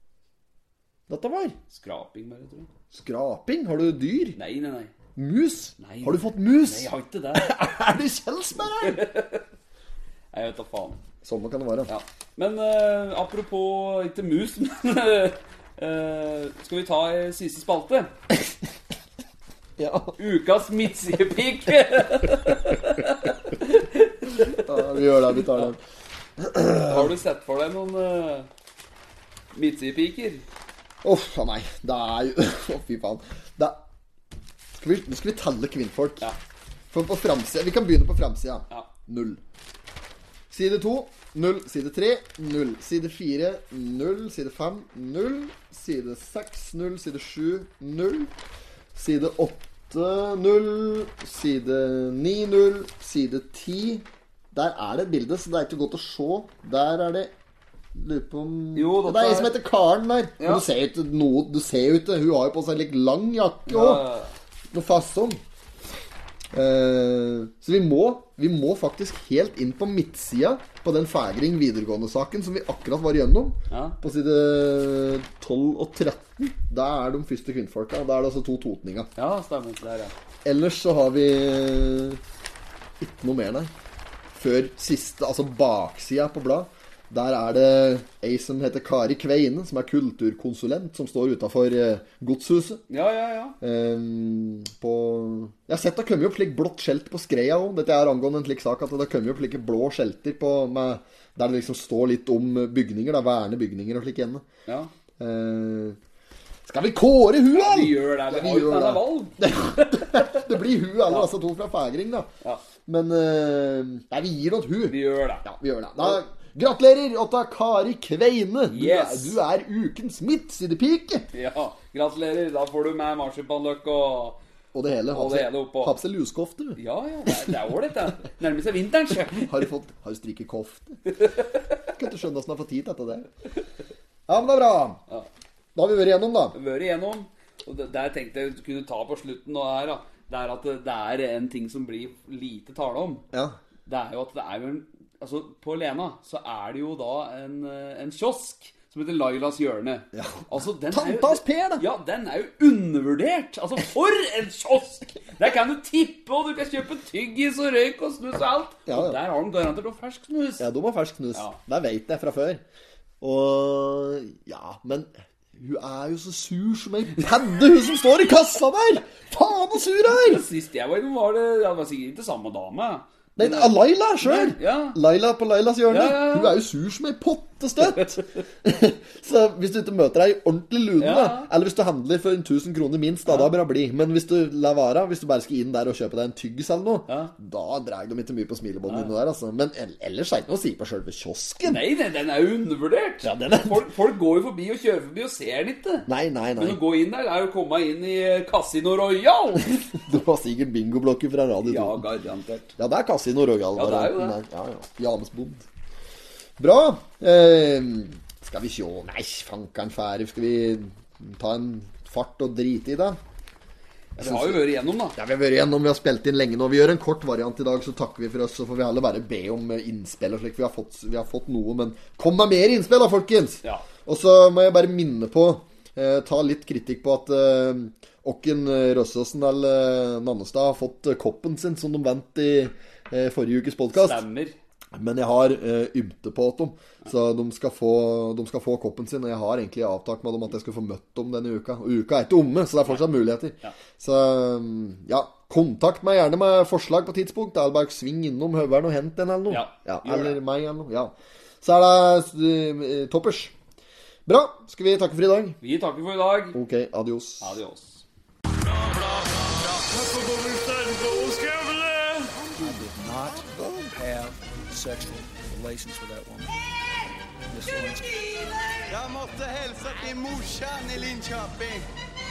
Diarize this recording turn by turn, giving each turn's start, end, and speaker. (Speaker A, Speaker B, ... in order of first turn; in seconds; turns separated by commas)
Speaker A: 1.1-1.6, Speaker B: 1.7-2.7, Speaker A: 2.9-4.4, Speaker B: 4.3-4.9, Speaker A: 5.2-9.0, Speaker B: 5.8-7.5, Speaker B: 8.8-9.4, Speaker B: 10.3-11.0, Speaker A: 11.2-11.9, Speaker B: 11.9-18.1, Speaker A: 19.8-20.2, Speaker B: 20.2-24.8, Speaker A: 24.5-25.8, Speaker B: 25.4-25.7, Speaker A: 26.4-27.1, Speaker B: 26.8-28.5, Speaker B: 29.5-30.4, Speaker A: 31.0-33.8, Speaker A: 34.7-36.3, Speaker A: 36.9-39.4, Speaker A: 40.5-48.3, Speaker A: 48.9-57.3, Speaker A: 57.9-64.0, Speaker B: 58.7-59.5, Speaker B: 60.4-60.6, Speaker B: 63.7-64.3, Speaker A: 64.7-65.4, Speaker A: 66.5-79.1, Speaker B: 73.7-74.0, Speaker B: 79.2-80.1, Speaker A: 80.4-82.2, Speaker A: 83.0-83.7, Speaker A: 84.3-92.8, Speaker B: 92.9-93.5, Speaker A: 93.6-104.4, Speaker A: 105.2-106.0, Speaker A: 106.7-112.3, Speaker B: 107.5-110.5, Speaker A: 112.8-121.3, Speaker B: 114.9-115.4, Speaker B: 118.7-119.4, Speaker B: 121.3-124.4, Speaker A: 124.7-127.6, Speaker B: 125.1-126.0, Speaker B: 126.8-129.6, Speaker A: 129.4-131.1, Speaker B: 131.1-131.9, Speaker A: 131.9-133.3, Speaker A: 134.3-135.0, Speaker A: 135.7-136.6, Speaker B: 136.5-143.2, Speaker B: 143.9-160.7, Speaker A: 150.1-151.8, Speaker A: 158.9-159.2, Speaker A: 160.6-162.6, Speaker A: 163.2-170.4, Speaker B: 170.1-175.0, Speaker A: 173.3-191.8, Speaker B: 175.9-176.6, Speaker B: 181.0-181.5, Speaker B: 187.1-187.3, Speaker B: 188.8-189.1, Speaker B: 191.6-199.9, Speaker A: 193.2-193.9, Speaker A: 196.1-196.8, Speaker A: 199.9-202.0, Speaker B: 201.6-202.8, Speaker A: 202.8-205.7, Speaker B: 203.8-204.4, Speaker A: 206.6-213.2, Speaker B: 214.2-215.2, Speaker A: 214.2-234.2, Speaker B: 233.9-234.5, Speaker A: 234.9-253.5, Speaker B: 249.5-250.4, Speaker A: 254.2-255.6, Speaker B: 255.6-256.6, Speaker A: 256.5-257.6, Speaker B: 257.4-258.0, Speaker C: 258.5-266.6, Speaker A: 262.5-263.9, Speaker C: 267.5-268.8, Speaker D: 268.9-271.9